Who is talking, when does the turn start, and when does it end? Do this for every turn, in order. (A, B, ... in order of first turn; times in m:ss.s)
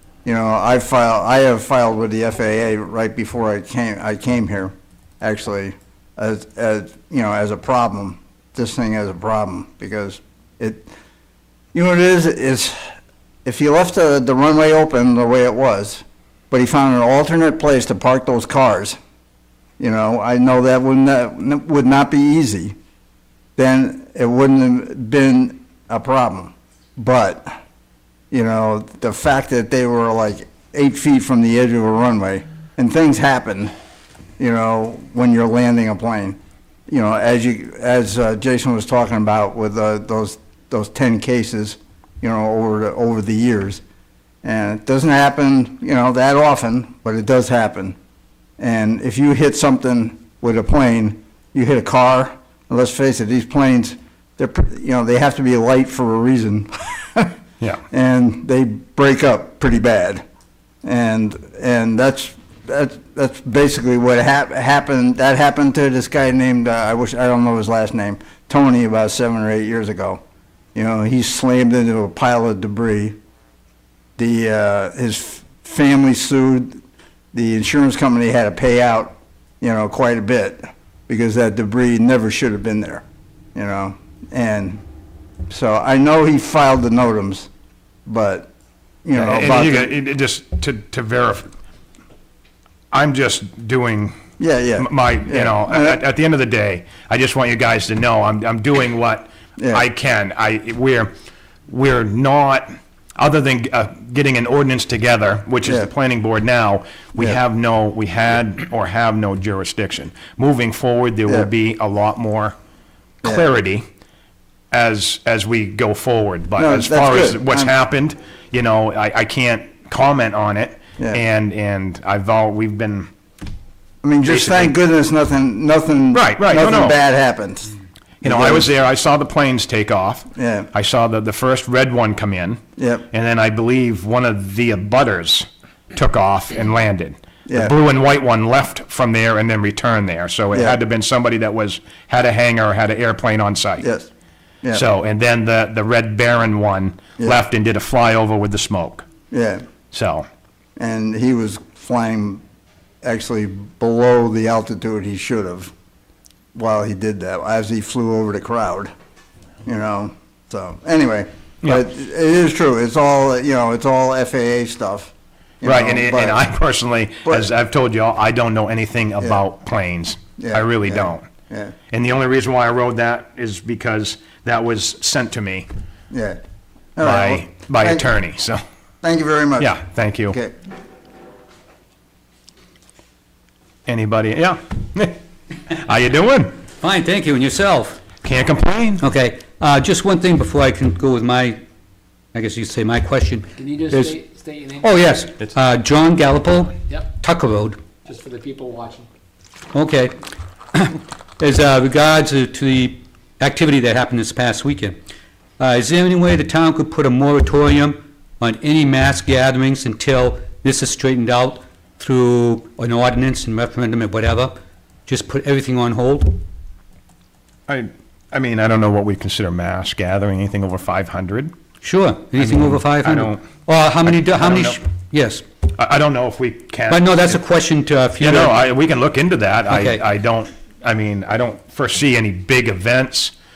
0:00.2-0:10.9 A
0:11.7-0:12.8 A
0:13.4-0:19.0 A
0:19.8-0:22.8 A
0:23.6-0:27.5 A
0:28.3-0:33.7 A
0:34.4-0:36.4 A
0:36.9-0:43.8 A
0:44.4-0:48.0 A
0:48.6-0:57.3 A
0:57.9-1:00.2 A
1:00.8-1:10.2 A
1:10.8-1:13.2 A
1:14.2-1:16.8 A
1:17.3-1:23.0 A
1:23.6-1:24.8 A
1:25.5-1:27.5 A
1:28.1-1:28.5 A
1:29.0-1:29.9 A
1:29.2-1:31.5 B
1:32.9-1:34.2 B
1:34.4-1:36.0 A
1:34.8-1:41.1 B
1:39.6-1:39.8 A
1:41.7-1:52.6 B
1:45.6-1:45.9 A
1:53.2-1:53.8 B
1:54.7-2:03.1 B
1:56.6-1:57.7 A
2:04.0-2:07.7 A
2:04.2-2:04.7 B
2:06.1-2:07.0 B
2:08.2-2:23.9 B
2:08.2-2:08.7 A
2:10.4-2:10.7 A
2:12.8-2:13.1 A
2:17.5-2:17.7 A
2:20.5-2:20.8 A
2:23.8-2:24.1 A
2:24.7-2:29.1 B
2:29.3-2:29.6 A
2:29.9-2:30.3 B
2:30.8-2:32.4 A
2:33.0-2:35.7 A
2:36.6-2:38.9 A
2:39.6-2:46.4 A
2:45.6-2:51.3 B
2:50.4-2:51.7 A
2:51.9-2:55.7 B
2:56.1-2:56.4 A
2:57.0-2:58.0 A
2:57.0-2:58.6 B
2:59.0-3:00.5 A
2:59.6-3:00.4 B
3:03.9-3:06.6 B
3:06.8-3:08.0 C
3:08.2-3:09.0 B
3:09.0-3:11.6 C
3:12.3-3:14.2 C
3:13.6-3:14.9 D
3:14.8-3:17.8 C
3:18.1-3:19.1 D
3:19.7-3:20.2 C
3:20.7-3:25.0 C
3:25.6-3:34.6 C
3:35.1-3:36.4 C
3:37.7-3:41.5 B
3:41.8-3:45.4 C
3:42.4-3:43.4 B
3:44.0-3:44.8 B
3:45.7-3:47.4 B
3:46.9-3:48.6 C
3:48.2-3:53.3 B
3:49.7-3:50.0 C